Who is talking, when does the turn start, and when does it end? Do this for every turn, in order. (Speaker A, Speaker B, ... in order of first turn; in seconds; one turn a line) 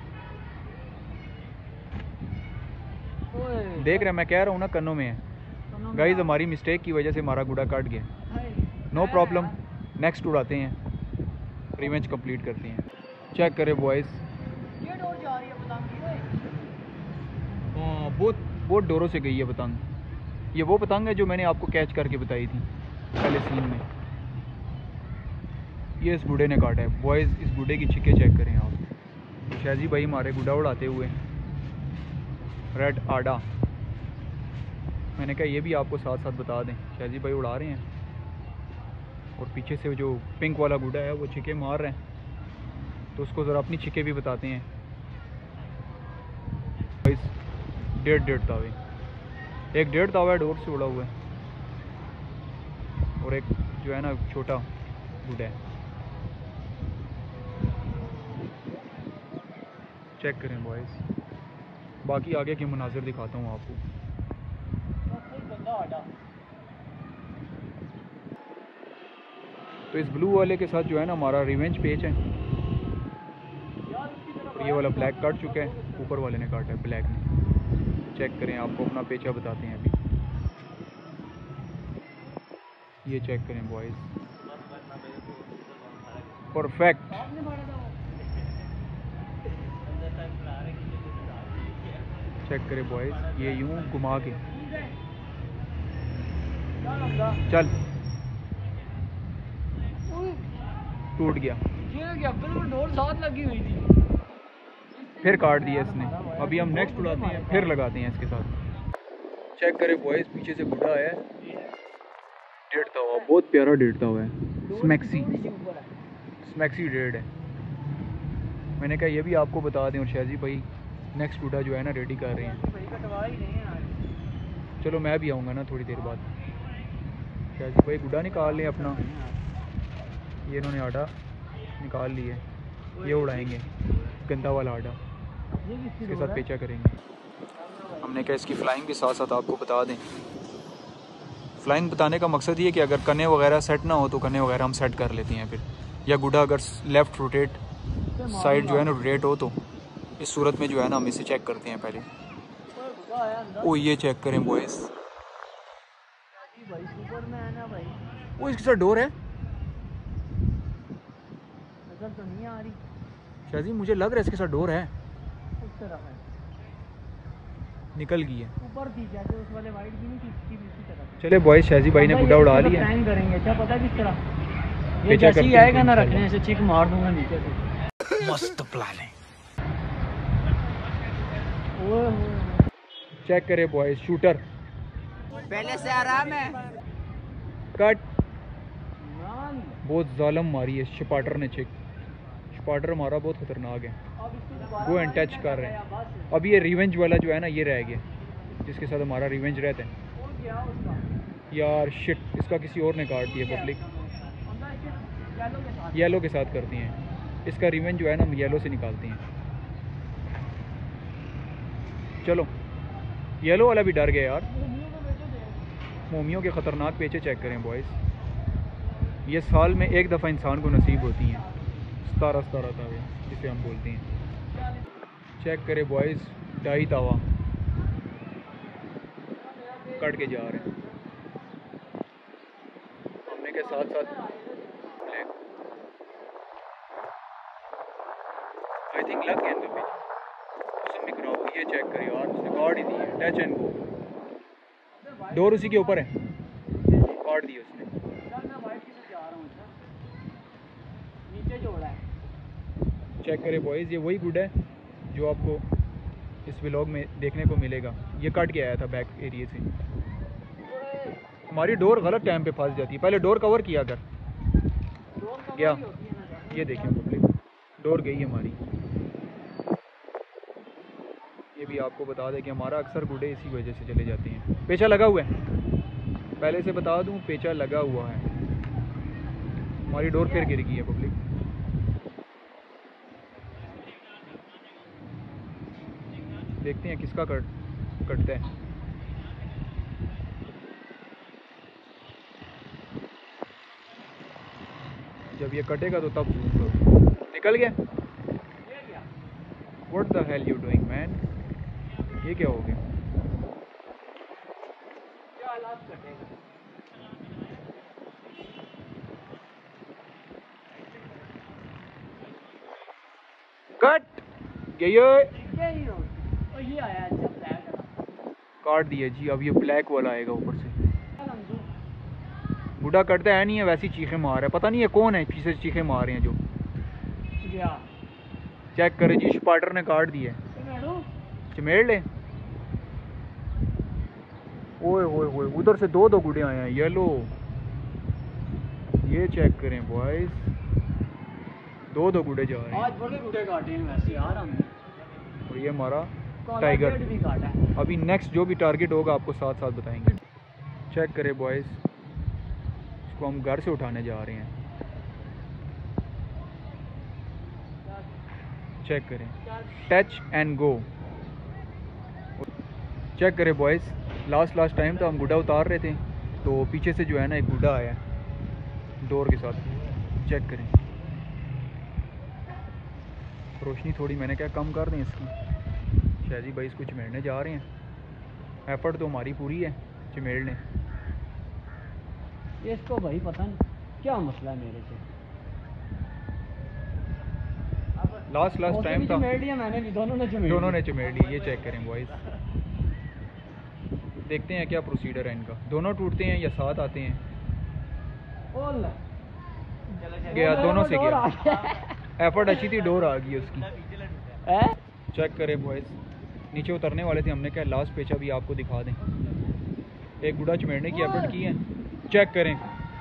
Speaker A: 3.3-4.1
Speaker B: 3.8-5.2
Speaker A: 5.7-6.4
Speaker B: 5.9-8.1
Speaker A: 8.3-9.6
Speaker B: 8.9-10.8
Speaker B: 11.8-14.2
Speaker A: 14.8-16.4
Speaker B: 17.7-19.8
Speaker B: 20.5-22.7
Speaker B: 23.2-23.9
Speaker B: 26.0-28.8
Speaker B: 29.5-31.2
Speaker B: 32.7-33.4
Speaker B: 35.2-37.8
Speaker B: 39.4-42.0
Speaker B: 43.1-44.7
Speaker B: 47.0-47.3
Speaker B: 47.9-48.8
Speaker B: 49.7-51.1
Speaker B: 53.2-54.7
Speaker B: 55.2-55.6
Speaker B: 60.2-61.0
Speaker B: 62.0-63.8
Speaker A: 65.1-66.1
Speaker B: 69.9-72.2
Speaker A: 73.8-76.1
Speaker B: 74.5-77.2
Speaker B: 78.1-79.9
Speaker B: 83.0-84.1
Speaker B: 86.5-87.2
Speaker A: 87.1-88.0
Speaker B: 92.4-94.4
Speaker A: 94.4-95.0
Speaker A: 96.8-97.4
Speaker B: 97.5-97.7
Speaker A: 100.1-100.6
Speaker B: 101.2-101.6
Speaker A: 101.8-103.8
Speaker A: 104.9-107.8
Speaker B: 105.2-108.5
Speaker B: 109.6-111.2
Speaker B: 112.7-115.3
Speaker A: 112.8-113.3
Speaker A: 114.7-115.9
Speaker B: 116.4-117.3
Speaker B: 118.8-122.6
Speaker A: 122.3-124.0
Speaker B: 124.8-126.2
Speaker B: 127.5-129.0
Speaker A: 128.1-129.4
Speaker B: 130.5-131.1
Speaker B: 131.8-132.4
Speaker B: 133.0-135.0
Speaker A: 135.6-136.4
Speaker B: 136.0-137.0
Speaker A: 137.6-138.2
Speaker B: 138.0-140.0
Speaker B: 141.6-147.6
Speaker A: 148.2-149.0
Speaker B: 148.2-149.5
Speaker B: 150.2-152.1
Speaker A: 152.7-153.8
Speaker B: 153.6-154.9
Speaker A: 156.3-158.0
Speaker B: 158.4-159.1
Speaker A: 161.9-162.8
Speaker B: 163.5-164.9
Speaker A: 165.6-166.2
Speaker B: 167.9-168.5
Speaker A: 168.6-171.2
Speaker B: 171.2-172.9
Speaker A: 171.9-174.2
Speaker A: 175.0-177.7
Speaker B: 175.0-176.3
Speaker B: 178.2-179.1
Speaker A: 181.7-182.7
Speaker B: 183.2-184.4
Speaker A: 185.4-186.8
Speaker B: 187.7-188.0
Speaker A: 189.0-189.8
Speaker B: 189.8-191.7
Speaker B: 192.5-194.0
Speaker A: 194.2-196.3
Speaker B: 194.8-195.8
Speaker B: 196.3-198.0
Speaker B: 198.6-199.9
Speaker A: 200.2-201.1
Speaker B: 201.5-203.8
Speaker A: 203.3-206.2
Speaker B: 205.9-209.2
Speaker B: 212.2-212.5
Speaker B: 213.4-214.5
Speaker A: 214.5-215.6
Speaker B: 216.1-218.0
Speaker B: 219.2-221.4
Speaker A: 220.9-221.3
Speaker B: 222.0-224.1
Speaker B: 225.4-227.2
Speaker A: 229.4-231.0
Speaker B: 230.0-230.7
Speaker B: 233.2-234.1
Speaker A: 233.3-235.0
Speaker B: 238.9-240.0
Speaker B: 240.8-243.8
Speaker A: 242.6-243.1
Speaker A: 245.0-246.1
Speaker B: 245.3-246.1
Speaker B: 247.2-247.9
Speaker A: 248.2-249.8
Speaker A: 251.3-252.0
Speaker B: 253.2-254.5
Speaker B: 255.1-255.6
Speaker B: 256.4-259.7
Speaker A: 260.6-261.2
Speaker B: 261.5-264.0
Speaker A: 265.2-267.0
Speaker B: 265.5-265.8
Speaker B: 266.5-268.6
Speaker B: 271.5-275.3
Speaker B: 276.4-278.3
Speaker B: 279.9-281.2
Speaker A: 279.9-280.5
Speaker B: 286.6-287.5
Speaker B: 288.0-288.4
Speaker B: 295.3-296.8
Speaker B: 297.3-297.8
Speaker A: 298.6-299.1
Speaker B: 299.9-301.2
Speaker B: 302.2-302.8
Speaker A: 305.4-306.4
Speaker B: 313.8-315.3
Speaker A: 315.4-317.9
Speaker B: 318.6-320.7
Speaker A: 321.2-321.7
Speaker B: 322.8-326.4
Speaker A: 327.4-327.9
Speaker B: 328.7-330.4
Speaker A: 330.5-331.1
Speaker B: 331.5-332.1
Speaker B: 334.8-337.3
Speaker B: 339.0-340.5
Speaker B: 341.9-342.9
Speaker A: 342.7-344.7
Speaker B: 345.5-347.1
Speaker A: 346.4-347.6
Speaker B: 347.8-350.2
Speaker B: 350.9-351.8
Speaker B: 353.1-354.5
Speaker B: 358.8-360.9
Speaker B: 363.2-368.0
Speaker B: 369.0-370.7
Speaker B: 373.6-375.3
Speaker B: 376.2-377.7
Speaker B: 378.7-380.6
Speaker A: 382.6-385.0
Speaker A: 388.1-390.9
Speaker B: 388.3-389.3
Speaker B: 390.4-392.1
Speaker B: 394.3-397.2
Speaker A: 398.5-399.0
Speaker A: 399.9-401.9
Speaker B: 400.2-401.3
Speaker B: 402.2-403.7
Speaker B: 405.1-406.0
Speaker B: 406.5-409.0
Speaker B: 410.2-412.6
Speaker A: 410.9-411.4